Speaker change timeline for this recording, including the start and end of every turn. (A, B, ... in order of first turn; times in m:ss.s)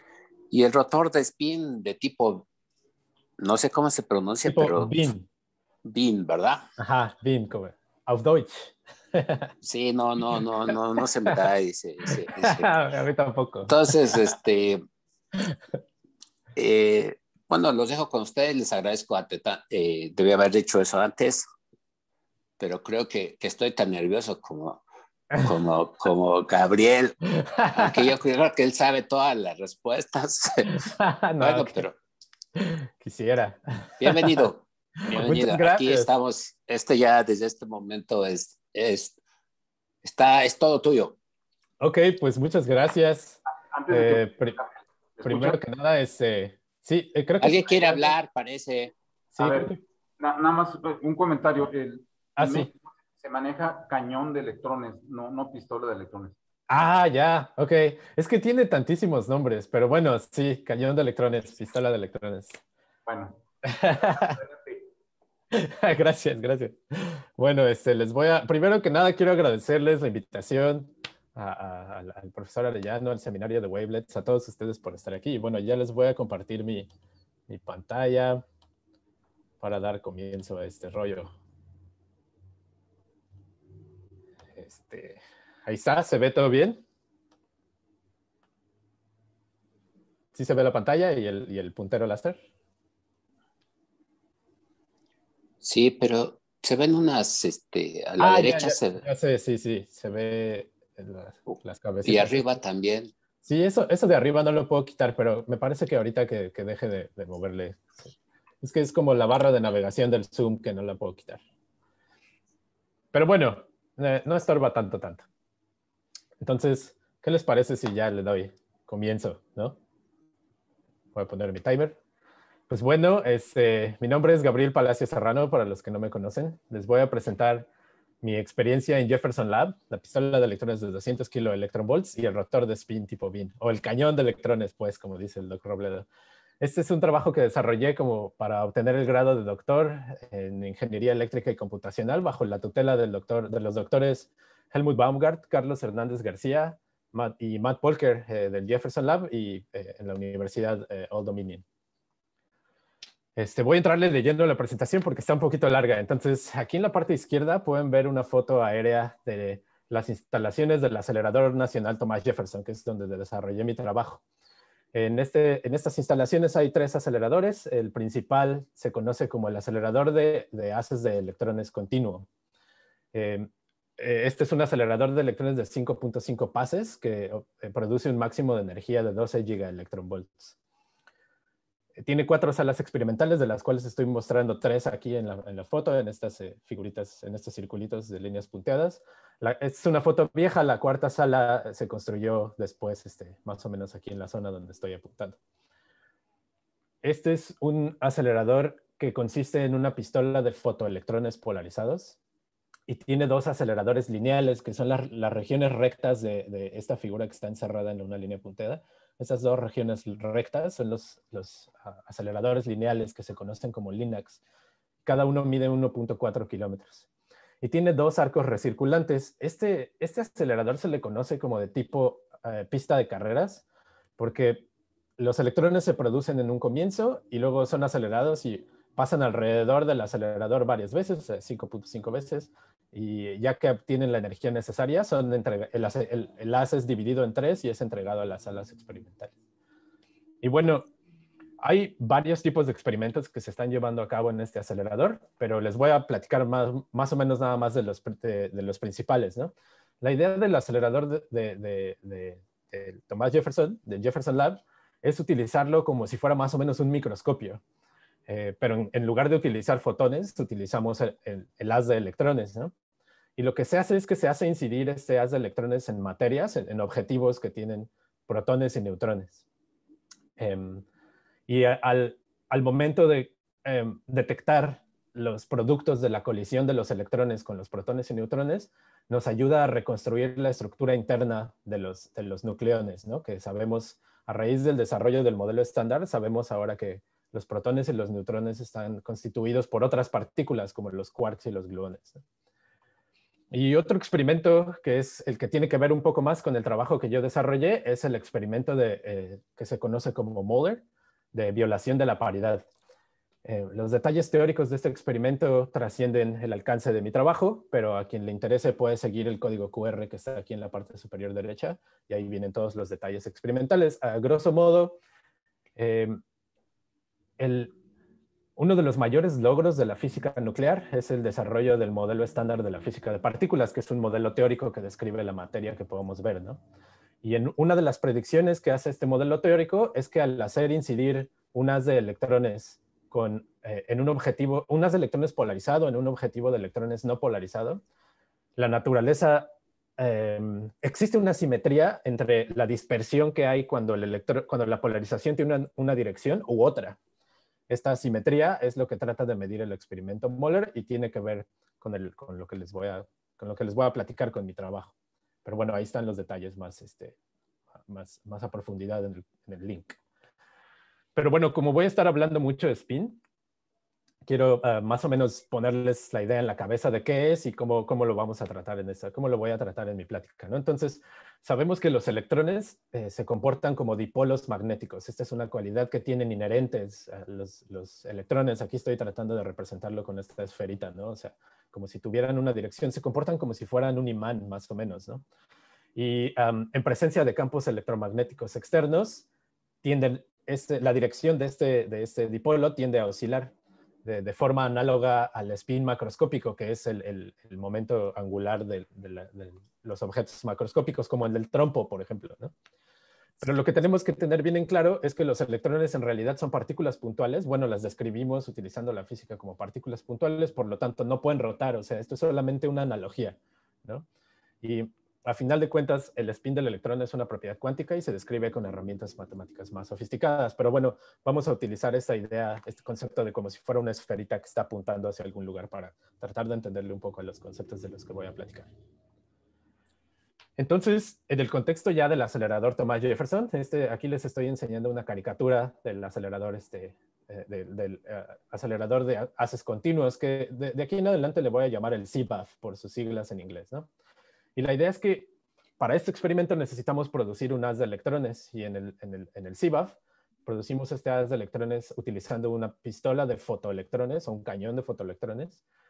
0:00.5-0:02.5 A
0:03.4-0:05.0 A
0:04.5-0:05.2 B
0:05.8-0:06.7 A
0:06.8-0:09.5 B
0:09.6-0:12.7 A
0:12.1-0:14.2 B
0:13.7-0:14.8 A
0:16.6-0:21.5 A
0:22.6-0:24.8 A
0:25.4-0:27.2 A
0:27.3-0:28.0 B
0:27.7-0:30.8 A
0:30.8-0:31.8 B
0:31.4-0:32.0 A
0:32.6-0:34.5 B
0:34.0-0:39.2 A
0:35.1-0:36.1 B
0:40.0-0:41.2 A
0:41.8-0:44.6 B
0:43.7-0:45.6 C
0:45.2-0:48.1 B
0:47.4-0:48.9 A
0:49.3-0:56.4 C
0:49.4-0:49.8 B
0:52.4-0:52.7 B
0:56.7-1:02.6 B
1:03.0-1:04.9 C
1:03.6-1:04.4 B
1:05.5-1:16.9 B
1:17.5-1:18.4 B
1:19.6-1:21.3 B
1:24.6-1:26.8 B
1:30.3-1:32.4 B
1:35.6-1:39.0 A
1:38.2-1:42.5 B
1:41.5-1:43.1 A
1:43.4-1:51.4 B
1:53.1-1:55.2 B
1:56.4-1:59.8 B
2:01.1-2:02.0 B
2:02.7-2:07.7 B
2:08.2-2:16.0 B
2:16.6-2:31.6 B
2:33.4-2:44.2 B
2:44.9-2:52.3 B
2:53.1-3:00.5 B
3:02.0-3:15.4 B
3:17.0-3:22.2 B
3:22.9-3:34.4 B
3:35.0-3:37.0 B
3:37.6-3:43.6 B
3:44.2-3:44.6 B
3:45.2-3:59.3 B
4:00.4-4:00.8 B
4:01.6-4:17.6 B
4:18.3-4:22.7 B
4:23.4-4:29.4 B
4:30.4-4:30.8 B
4:31.5-4:52.2 B
4:53.5-5:02.6 B
5:03.4-5:15.0 B
5:15.8-5:16.2 B
5:17.4-5:17.7 B
5:18.6-5:26.6 B
5:27.2-5:37.8 B
5:38.6-5:47.0 B
5:47.7-5:54.9 B
5:55.4-5:57.1 B
5:57.9-6:00.0 B
6:01.1-6:03.2 B
6:04.2-6:25.2 B
6:25.9-6:29.2 B
6:29.8-6:33.5 B
6:34.0-6:42.5 B
6:43.4-6:54.0 B
6:54.6-7:08.7 B
7:10.6-7:23.9 B
7:24.6-7:35.6 B